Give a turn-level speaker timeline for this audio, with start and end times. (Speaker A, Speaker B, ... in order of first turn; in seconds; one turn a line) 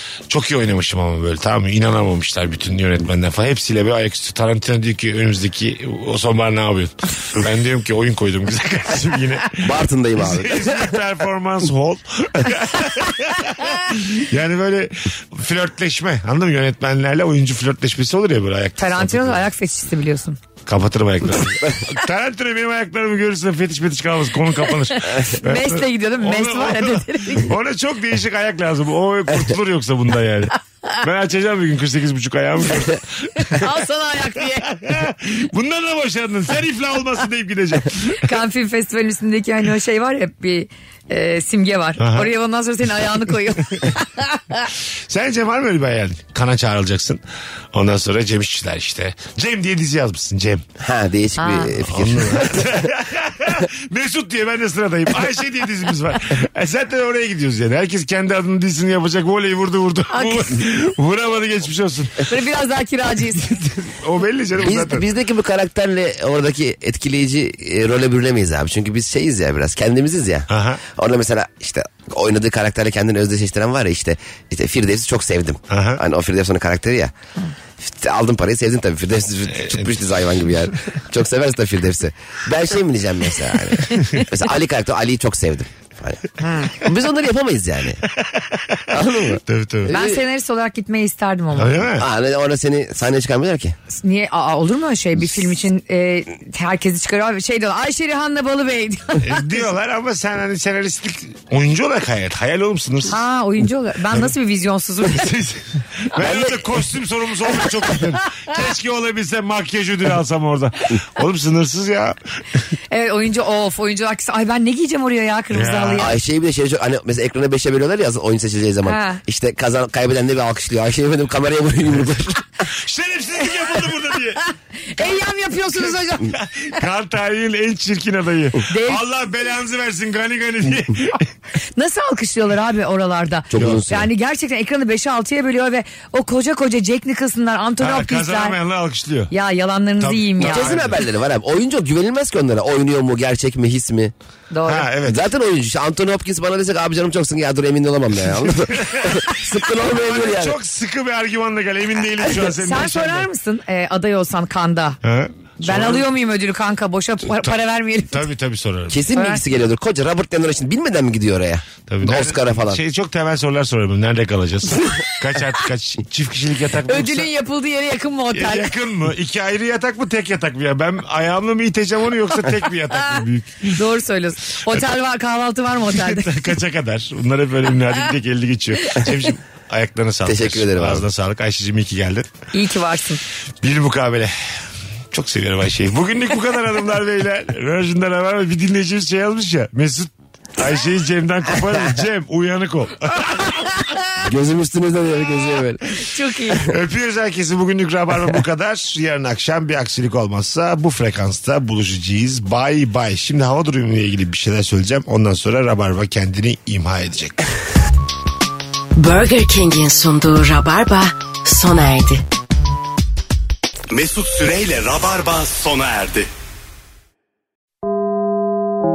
Speaker A: 0.3-19.4
Speaker B: 9.6-10.9
Speaker C: 18.8-20.4
Speaker A: 20.6-33.7
Speaker C: 25.1-27.5
Speaker C: 33.4-34.7
Speaker A: 34.4-38.3
Speaker C: 38.1-44.6
Speaker A: 42.0-42.3
Speaker A: 45.1-47.2
Speaker A: 47.7-50.6
Speaker B: 50.8-52.9
Speaker C: 51.4-51.7
Speaker A: 51.8-62.3
Speaker C: 60.1-60.6
Speaker C: 62.3-63.5
Speaker A: 63.3-65.1
Speaker B: 64.6-77.1
Speaker A: 70.5-70.8
Speaker A: 75.7-76.0
Speaker B: 77.8-88.0
Speaker A: 79.5-79.9
Speaker C: 83.9-84.2
Speaker A: 88.2-88.8
Speaker B: 88.9-90.2
Speaker A: 89.4-89.9
Speaker C: 89.9-91.8
Speaker A: 91.5-92.1
Speaker B: 92.0-93.8
Speaker C: 93.9-99.5
Speaker A: 99.2-103.2
Speaker C: 103.1-105.3
Speaker A: 105.0-112.2
Speaker B: 106.2-106.5
Speaker C: 112.9-116.2
Speaker A: 115.5-116.1
Speaker B: 116.0-122.5
Speaker C: 118.8-119.2
Speaker A: 122.7-124.4
Speaker C: 124.9-126.3
Speaker A: 125.7-131.3
Speaker C: 128.7-129.0
Speaker C: 131.8-138.6
Speaker B: 133.5-134.1
Speaker A: 133.6-133.8
Speaker A: 137.8-139.3
Speaker C: 139.3-140.7
Speaker A: 140.0-141.1
Speaker B: 140.4-144.1
Speaker C: 144.5-144.9
Speaker A: 144.7-145.3
Speaker B: 145.1-150.6
Speaker A: 148.3-153.3
Speaker C: 152.3-155.0
Speaker A: 155.0-156.1
Speaker C: 155.6-158.2
Speaker A: 158.1-159.0
Speaker B: 158.9-162.8
Speaker C: 159.1-159.4
Speaker A: 161.9-167.3
Speaker C: 166.9-168.7
Speaker A: 168.3-173.8
Speaker C: 173.7-176.5
Speaker A: 175.9-182.3
Speaker B: 180.2-181.0
Speaker C: 182.5-183.2
Speaker A: 183.6-184.3
Speaker A: 185.1-193.9
Speaker B: 194.2-195.9
Speaker C: 196.0-196.7
Speaker A: 196.5-207.4
Speaker D: 208.9-212.2
Speaker E: 213.9-216.3